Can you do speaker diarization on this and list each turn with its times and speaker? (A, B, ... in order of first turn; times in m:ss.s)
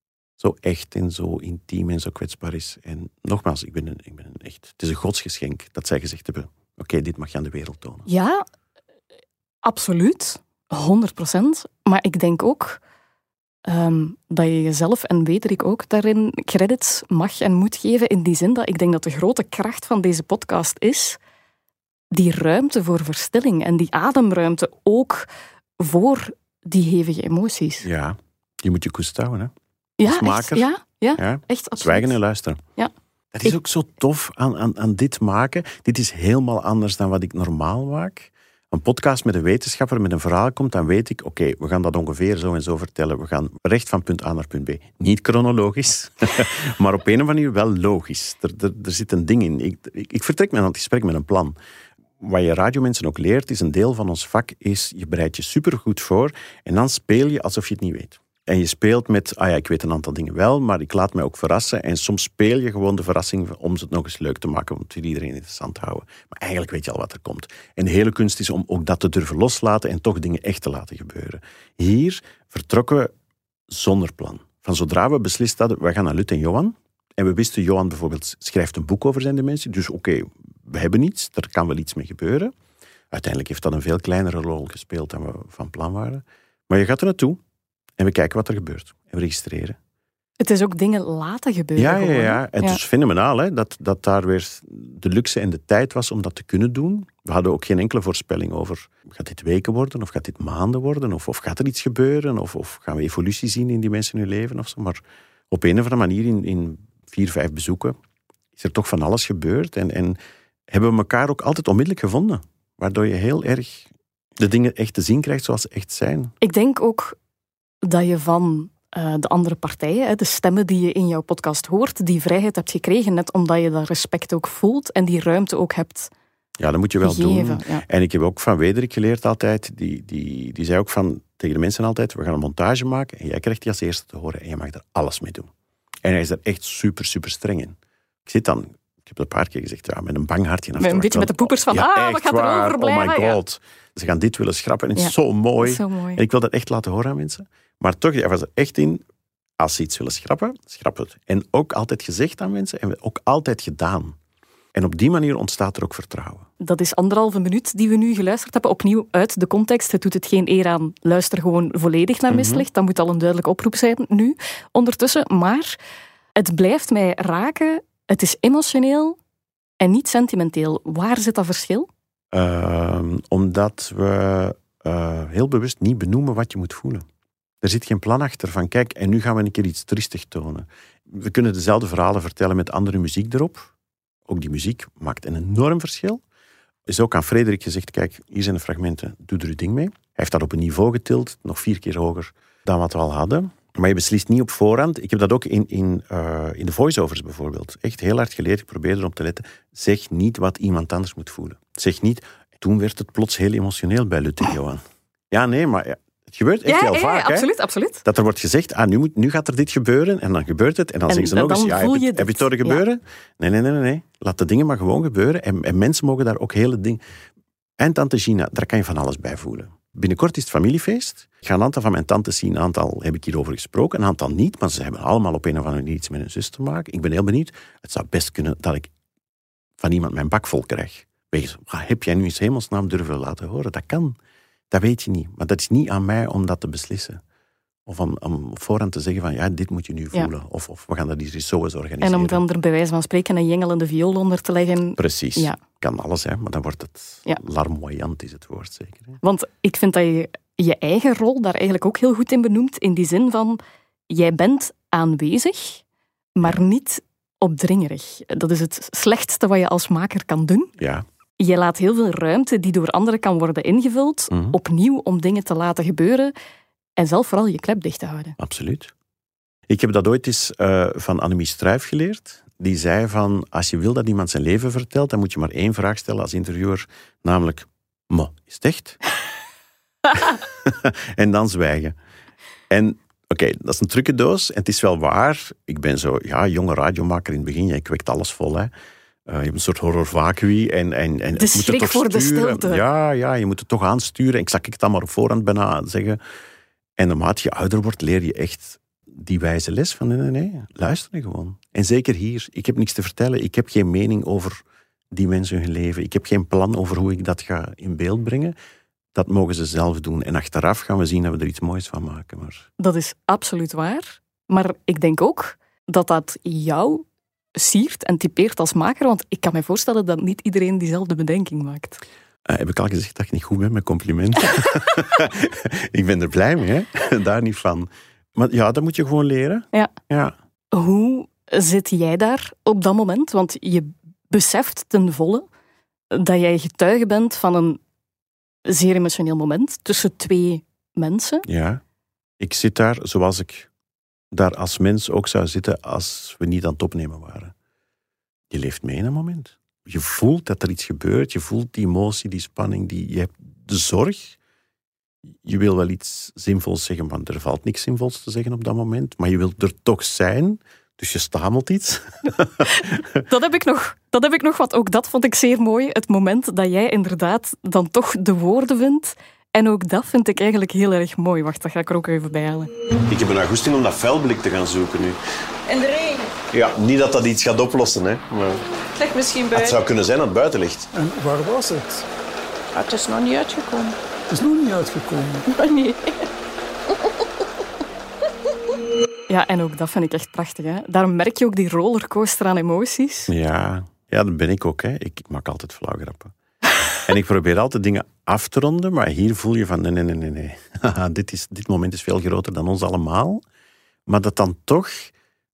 0:00.4-0:08.1 A
0:08.1-0:08.4 B
0:09.6-0:12.8 B
0:13.7-0:21.2 B
0:22.1-0:27.9 B
0:27.8-0:29.5 A
0:30.0-0:32.2 B
0:30.0-0:30.6 A
0:31.2-0:32.6 A
0:33.3-0:51.6 A
0:52.2-1:13.1 A
1:13.7-1:22.5 A
1:23.1-1:27.4 A
1:28.0-1:29.8 A
1:30.4-1:32.8 B
1:31.8-1:45.0 A
1:45.5-1:48.0 A
1:48.6-1:50.2 A
1:50.7-1:53.9 A
1:54.4-1:56.3 A
1:56.4-1:57.2 B
1:57.8-2:06.1 B
2:06.6-2:15.5 A
2:07.0-2:07.8 B
2:16.0-2:29.0 A
2:20.8-2:23.4 B
2:25.0-2:26.2 B
2:29.6-2:34.2 A
2:34.8-2:36.5 A
2:36.6-2:45.8 B
2:42.3-2:42.7 A
2:46.4-2:49.2 B
2:49.8-2:51.9 B
2:52.3-2:57.0 A
2:57.6-3:03.7 A
3:04.3-3:06.2 A
3:06.9-3:27.5 A
3:26.7-3:28.0 B
3:28.0-3:37.0 A
3:31.1-3:32.8 B
3:37.8-3:48.9 A
3:49.8-3:54.2 A
3:54.7-3:57.2 A
3:57.9-4:02.4 A
4:02.0-4:05.6 B
4:05.0-4:09.2 A
4:09.2-4:15.8 B
4:16.4-4:20.7 B
4:20.8-4:21.1 A
4:21.4-4:26.3 B
4:24.3-4:24.6 A
4:27.0-4:28.4 B
4:28.4-4:28.9 A
4:29.7-4:39.0 A
4:40.1-4:42.0 A
4:42.7-4:48.7 A
4:49.3-4:56.2 A
4:51.4-4:52.8 B
4:57.0-5:08.6 A
5:09.2-5:12.7 A
5:12.8-5:17.0 B
5:17.6-5:22.0 B
5:22.5-5:30.3 A
5:30.7-5:35.4 B
5:36.1-5:37.8 B
5:38.7-5:41.5 B
5:41.5-5:41.8 A
5:42.4-5:43.7 A
5:44.3-5:47.5 A
5:48.5-5:54.4 A
5:55.4-6:03.2 A
6:02.6-6:12.7 B
6:13.1-6:15.2 C
6:15.7-6:16.3 D
6:16.5-6:18.6 C
6:19.0-6:19.8 D
6:19.5-6:20.9 C
6:20.9-6:22.1 E
6:22.7-6:24.0 D
6:24.3-6:25.5 E
6:25.5-6:26.1 D
6:29.3-6:33.3 B
6:33.3-6:36.3 A
6:37.0-6:43.4 A
6:44.1-6:45.1 A